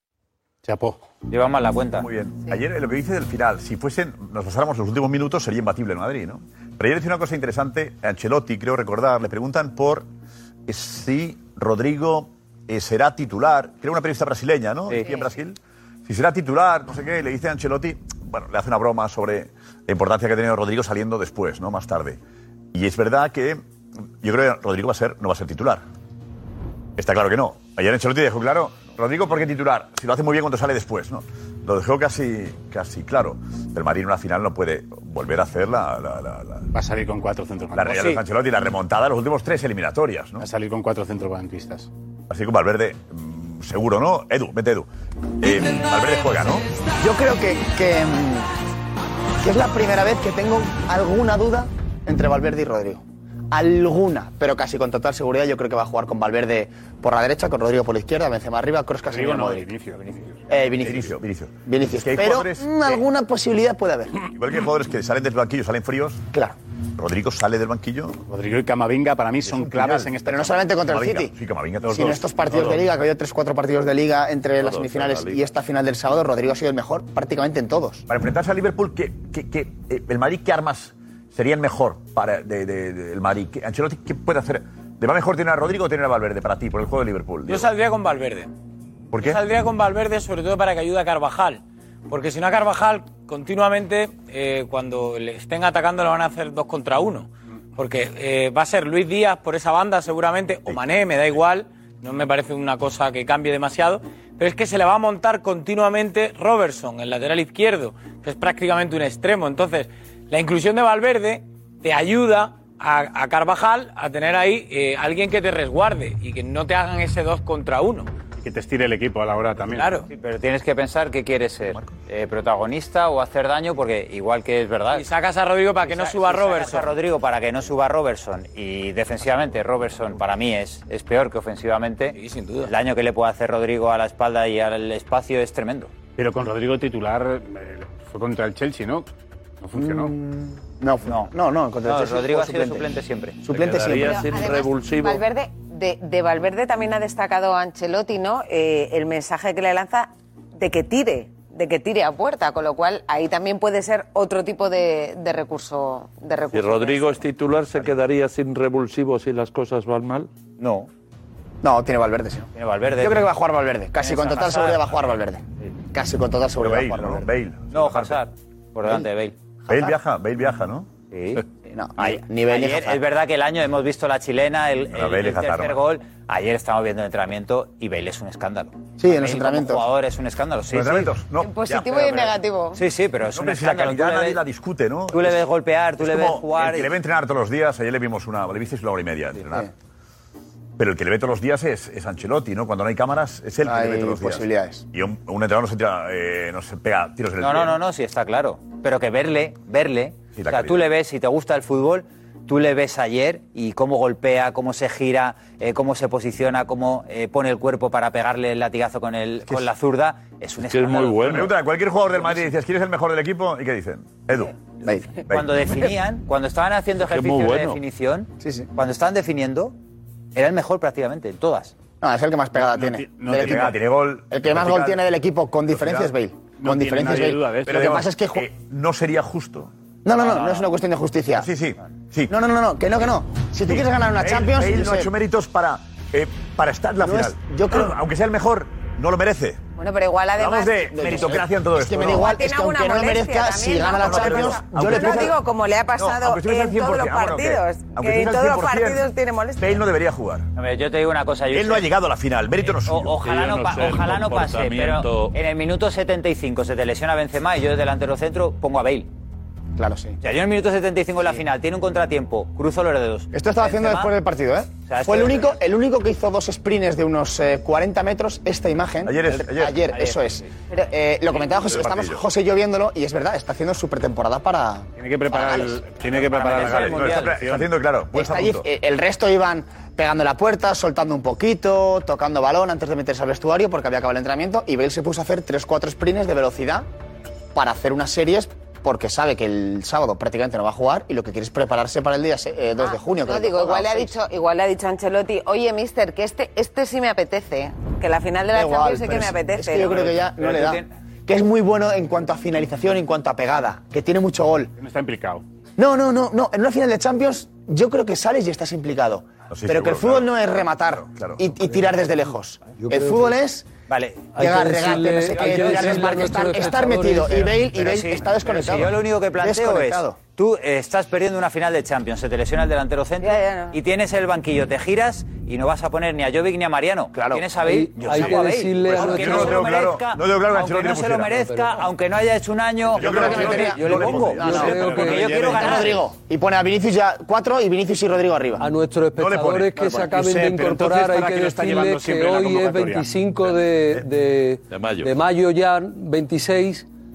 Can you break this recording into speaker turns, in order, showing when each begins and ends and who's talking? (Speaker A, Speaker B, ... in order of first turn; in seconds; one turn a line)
Speaker A: 0.6-1.0
Speaker B: 1.3-2.1
Speaker C: 2.0-10.1
Speaker C: 10.7-22.2
Speaker D: 15.0-15.3
Speaker C: 22.7-23.6
Speaker C: 24.2-25.8
Speaker C: 27.0-36.7
Speaker A: 36.7-38.2
Speaker C: 37.7-40.5
Speaker A: 40.4-41.9
Speaker C: 42.3-44.9
Speaker C: 45.4-46.7
Speaker E: 47.0-48.5
Speaker E: 49.4-59.7
Speaker A: 59.1-60.4
Speaker E: 60.5-61.1
Speaker C: 60.8-63.0
Speaker E: 61.7-64.2
Speaker C: 64.3-66.3
Speaker C: 67.0-68.2
Speaker A: 68.3-70.8
Speaker C: 69.4-70.3
Speaker E: 70.3-71.3
Speaker C: 70.8-72.8
Speaker E: 71.9-78.1
Speaker F: 74.6-75.5
Speaker C: 78.1-87.7
Speaker G: 87.5-88.5
Speaker C: 89.1-89.4
Speaker G: 89.2-118.1
Speaker A: 118.4-120.0
Speaker G: 119.7-120.1
Speaker B: 120.1-125.0
Speaker G: 124.9-126.9
Speaker B: 125.8-135.9
Speaker G: 132.1-132.7
Speaker A: 136.2-139.1
Speaker A: 139.6-140.1
Speaker E: 139.8-142.9
Speaker B: 141.1-141.3
Speaker B: 141.8-143.4
Speaker E: 143.4-144.2
Speaker F: 143.5-145.2
Speaker D: 144.0-157.3
Speaker F: 156.5-160.3
Speaker B: 160.6-160.9
Speaker E: 161.6-162.5
Speaker B: 162.5-163.3
Speaker E: 163.0-167.3
Speaker B: 164.0-164.9
Speaker C: 166.6-168.2
Speaker B: 167.7-169.3
Speaker C: 169.7-170.9
Speaker B: 171.1-171.4
Speaker E: 171.6-173.0
Speaker B: 172.0-181.1
Speaker C: 174.9-175.8
Speaker E: 179.0-179.8
Speaker C: 180.7-182.4
Speaker D: 181.4-182.8
Speaker B: 182.7-184.4
Speaker C: 183.3-185.5
Speaker B: 185.1-186.9
Speaker C: 186.0-189.7
Speaker C: 190.8-197.8
Speaker E: 193.6-194.9
Speaker B: 197.4-211.5
Speaker C: 200.3-200.9
Speaker F: 210.6-211.5
Speaker C: 211.2-214.5
Speaker E: 214.8-215.2
Speaker C: 215.3-215.7
Speaker B: 215.3-219.8
Speaker F: 217.1-217.8
Speaker E: 218.4-218.7
Speaker B: 220.3-221.7
Speaker E: 222.0-223.7
Speaker A: 222.6-223.8
Speaker C: 223.3-225.0
Speaker E: 224.3-228.5
Speaker C: 225.7-226.1
Speaker A: 226.6-227.9
Speaker C: 227.7-229.7
Speaker E: 230.1-231.5
Speaker B: 230.2-230.7
Speaker C: 231.3-232.4
Speaker E: 232.3-235.1
Speaker C: 233.7-239.6
Speaker E: 237.0-238.0
Speaker D: 239.8-241.2
Speaker C: 240.4-242.4
Speaker E: 240.9-245.3
Speaker D: 242.0-249.8
Speaker C: 244.0-245.4
Speaker C: 245.9-250.5
Speaker B: 250.6-251.9
Speaker C: 251.5-253.2
Speaker B: 252.7-259.1
Speaker F: 253.2-255.3
Speaker E: 259.8-260.2
Speaker B: 260.2-264.1
Speaker E: 263.3-275.8
Speaker B: 264.9-265.6
Speaker C: 269.0-269.9
Speaker C: 271.4-272.3
Speaker A: 275.0-277.7
Speaker B: 276.2-277.4
Speaker C: 276.5-278.7
Speaker E: 278.1-286.9
Speaker E: 287.5-294.1
Speaker D: 292.8-300.0
Speaker E: 298.5-304.7
Speaker B: 299.8-300.9
Speaker A: 304.8-305.4
Speaker E: 305.8-313.7
Speaker C: 309.5-311.4
Speaker H: 312.7-313.3
Speaker B: 313.9-314.3
Speaker H: 314.4-317.7
Speaker E: 314.4-320.2
Speaker B: 315.3-315.9
Speaker B: 317.8-336.0
Speaker D: 323.2-323.8
Speaker E: 327.1-327.4
Speaker H: 327.6-329.7
Speaker C: 328.0-331.4
Speaker H: 331.3-331.9
Speaker C: 333.0-335.2
Speaker E: 333.0-334.7
Speaker H: 333.3-335.7
Speaker A: 334.6-336.0
Speaker E: 335.5-338.7
Speaker H: 338.6-346.9
Speaker C: 339.2-340.1
Speaker A: 340.1-343.1
Speaker F: 344.7-345.2